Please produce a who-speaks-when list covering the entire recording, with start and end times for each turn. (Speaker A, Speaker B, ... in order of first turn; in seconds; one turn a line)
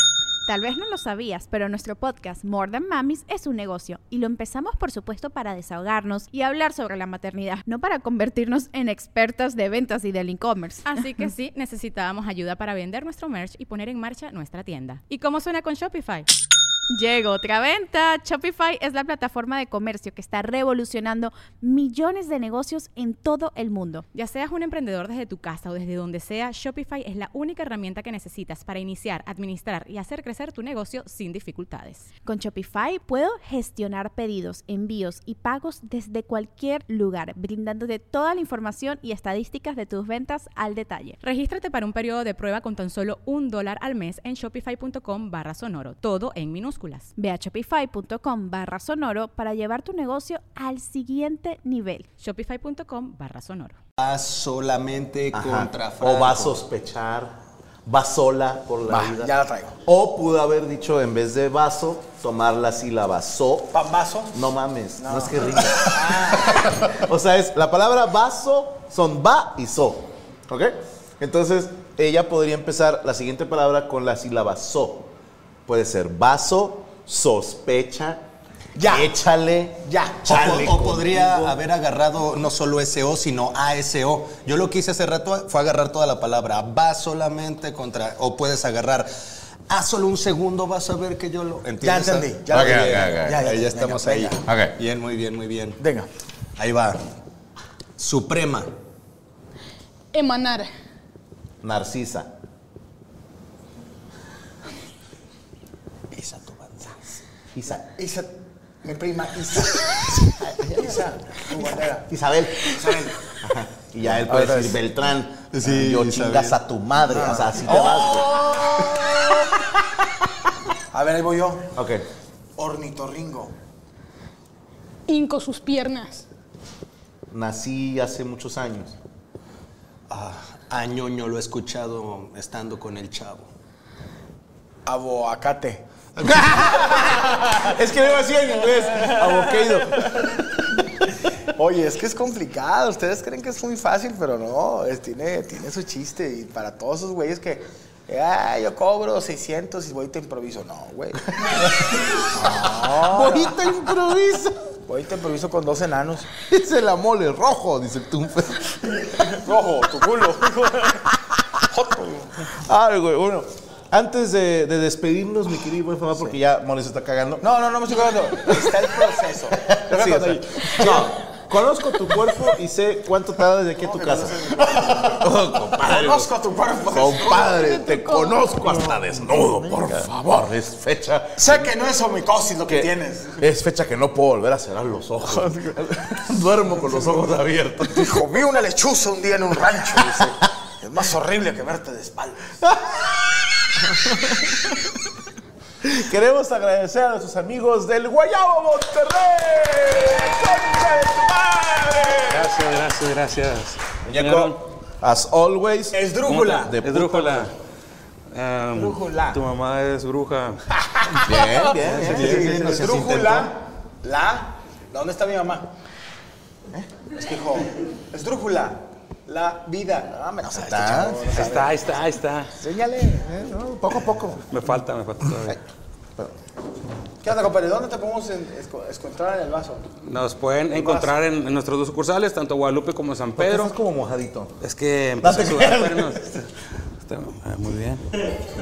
Speaker A: 0.5-11.2
Speaker B: 10.8-16.3
Speaker A: 16.9-24.0
Speaker B: 24.1-32.1
Speaker A: 32.2-41.2
Speaker B: 41.2-47.1
Speaker A: 47.1-52.1
Speaker B: 52.2-53.8
Speaker C: 54.0-56.6
Speaker D: 55.3-59.3
Speaker E: 58.9-59.8
Speaker D: 59.9-63.8
Speaker E: 63.7-64.3
Speaker D: 64.3-75.1
Speaker E: 65.0-66.7
Speaker D: 75.7-78.2
Speaker E: 78.7-79.2
Speaker D: 78.8-81.6
Speaker E: 79.8-80.5
Speaker C: 80.3-89.1
Speaker C: 89.7-95.8
Speaker E: 91.8-94.4
Speaker D: 92.5-93.4
Speaker D: 94.4-94.7
Speaker E: 95.8-96.1
Speaker C: 96.6-97.0
Speaker C: 98.0-98.7
Speaker F: 100.1-100.7
Speaker D: 101.6-102.3
Speaker D: 107.5-107.8
Speaker E: 107.8-108.3
Speaker E: 108.8-110.1
Speaker D: 110.3-111.0
Speaker E: 110.8-112.1
Speaker D: 112.1-112.7
Speaker E: 112.6-113.2
Speaker D: 113.3-118.3
Speaker C: 114.2-114.6
Speaker C: 115.5-116.6
Speaker E: 117.1-119.6
Speaker E: 120.9-121.7
Speaker D: 121.8-122.0
Speaker E: 122.6-123.5
Speaker F: 125.1-126.2
Speaker D: 127.3-128.9
Speaker C: 130.1-133.5
Speaker E: 134.8-135.8
Speaker D: 136.3-140.4
Speaker E: 136.6-137.1
Speaker E: 141.6-151.7
Speaker D: 151.8-154.6
Speaker E: 152.3-153.6
Speaker E: 154.8-156.3
Speaker D: 156.4-158.8
Speaker E: 159.0-161.1
Speaker E: 161.6-162.4
Speaker D: 162.6-167.4
Speaker E: 167.4-171.1
Speaker D: 169.6-176.3
Speaker E: 173.8-177.7
Speaker D: 176.9-181.7
Speaker F: 177.7-178.5
Speaker E: 181.4-183.4
Speaker D: 182.7-188.2
Speaker E: 185.4-185.7
Speaker E: 187.9-192.5
Speaker D: 192.6-194.8
Speaker D: 195.8-202.5
Speaker G: 202.3-204.6
Speaker D: 204.1-206.0
Speaker E: 205.9-207.5
Speaker G: 206.2-207.5
Speaker D: 206.6-207.1
Speaker G: 208.3-210.6
Speaker E: 208.7-209.4
Speaker E: 210.8-215.7
Speaker D: 211.2-212.6
Speaker C: 211.8-213.5
Speaker E: 217.1-221.8
Speaker D: 220.5-221.2
Speaker G: 221.3-222.5
Speaker E: 222.6-223.3
Speaker D: 223.2-224.4
Speaker G: 224.5-225.6
Speaker E: 227.2-229.8
Speaker G: 230.1-233.7
Speaker E: 230.7-231.2
Speaker D: 233.3-234.5
Speaker G: 234.6-236.5
Speaker D: 235.2-236.2
Speaker G: 237.0-238.1